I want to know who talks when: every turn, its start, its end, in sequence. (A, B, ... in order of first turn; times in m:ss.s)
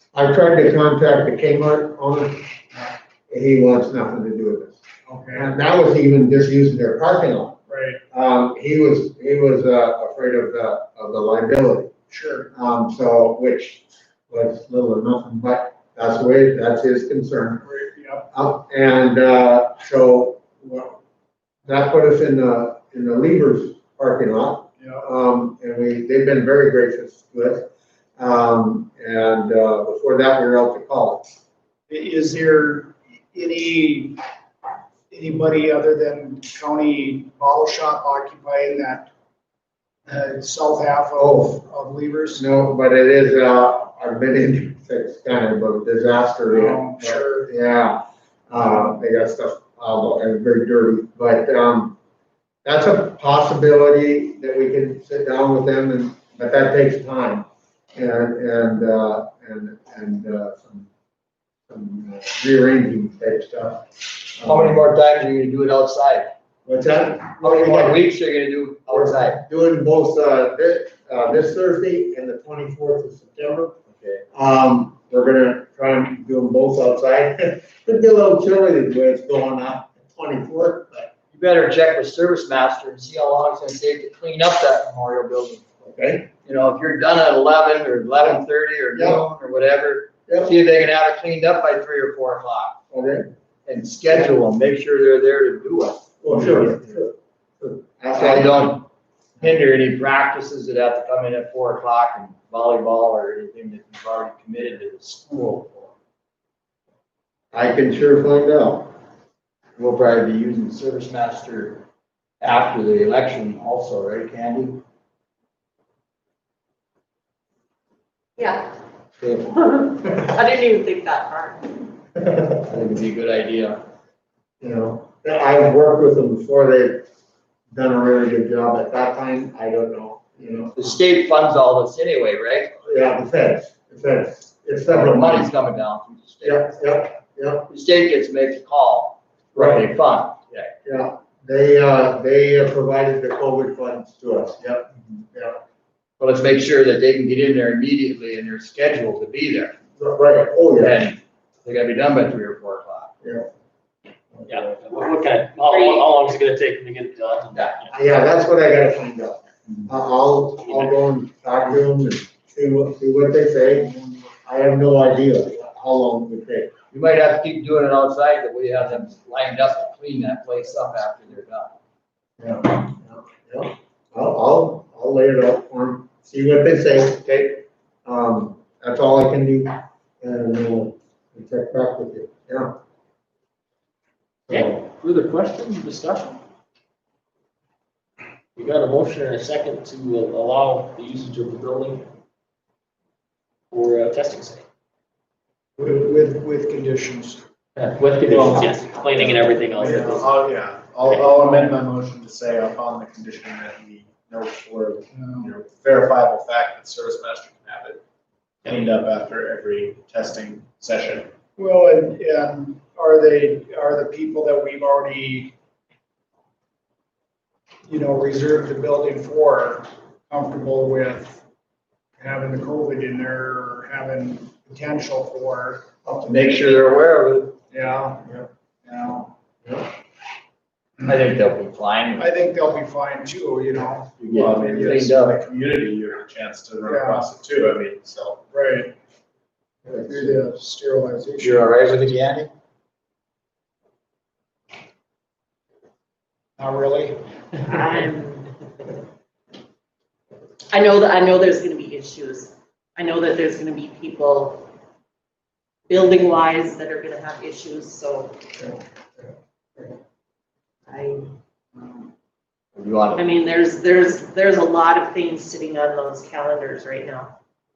0:00.1-0:02.4 A
0:03.3-0:07.6 A
0:05.0-0:05.5 B
0:07.7-0:08.0 B
0:08.1-0:11.9 A
0:12.1-0:12.5 B
0:12.5-0:17.6 A
0:17.6-0:18.3 B
0:18.3-0:21.0 A
0:21.7-0:31.3 A
0:24.8-0:25.1 B
0:31.9-0:34.2 B
0:35.1-0:39.1 B
0:40.0-0:42.4 B
0:41.2-0:41.6 A
0:42.4-0:52.0 A
0:46.5-0:47.5 B
0:52.6-1:00.9 A
1:01.7-1:04.9 A
1:04.4-1:06.3 C
1:06.7-1:08.0 A
1:07.4-1:09.4 C
1:08.9-1:21.1 A
1:21.3-1:25.6 C
1:25.8-1:26.3 A
1:26.4-1:32.8 C
1:28.9-1:29.2 A
1:30.3-1:30.5 A
1:32.9-1:33.3 A
1:33.7-1:36.8 C
1:36.2-1:38.6 A
1:38.1-1:38.9 C
1:39.4-1:45.9 C
1:47.5-1:48.9 A
1:49.8-1:51.8 C
1:52.4-1:54.8 C
1:59.6-2:01.6 D
2:02.4-2:03.8 C
2:04.6-2:07.0 A
2:07.7-2:10.9 A
2:10.8-2:12.7 C
2:12.8-2:15.5 A
2:14.9-2:16.7 C
2:16.4-2:17.7 A
2:17.7-2:20.7 C
2:19.6-2:19.9 A
2:20.8-2:25.6 A
2:26.2-2:29.8 C
2:30.0-2:31.0 A
2:30.8-2:33.1 C
2:33.2-2:33.5 A
2:34.5-2:37.8 E
2:37.6-2:37.9 C
2:37.9-2:46.7 A
2:46.9-2:51.8 C
2:52.4-3:02.7 A
3:04.5-3:06.4 E
3:08.6-3:12.0 E
3:13.7-3:14.6 E
3:15.8-3:17.4 B
3:17.8-3:20.3 E
3:18.2-3:28.0 F
3:19.8-3:20.2 B
3:21.2-3:21.7 B
3:25.1-3:25.5 B
3:28.6-3:31.3 F
3:31.6-3:35.6 B
3:37.9-3:41.4 B
3:42.2-3:45.9 B
3:46.1-3:47.6 C
3:47.7-3:48.3 B
3:48.8-3:49.3 B
3:51.0-3:52.3 C
3:52.2-3:55.4 B
3:54.2-3:55.4 C
3:54.3-3:58.4 F
3:56.8-3:57.3 B
3:58.5-3:58.9 B
4:00.0-4:02.0 B
4:01.4-4:02.5 C
4:06.6-4:07.8 B
4:07.7-4:08.5 D
4:10.7-4:14.6 D
4:15.9-4:18.3 D
4:20.9-4:21.2 D
4:22.8-4:23.3 C
4:23.2-4:27.3 D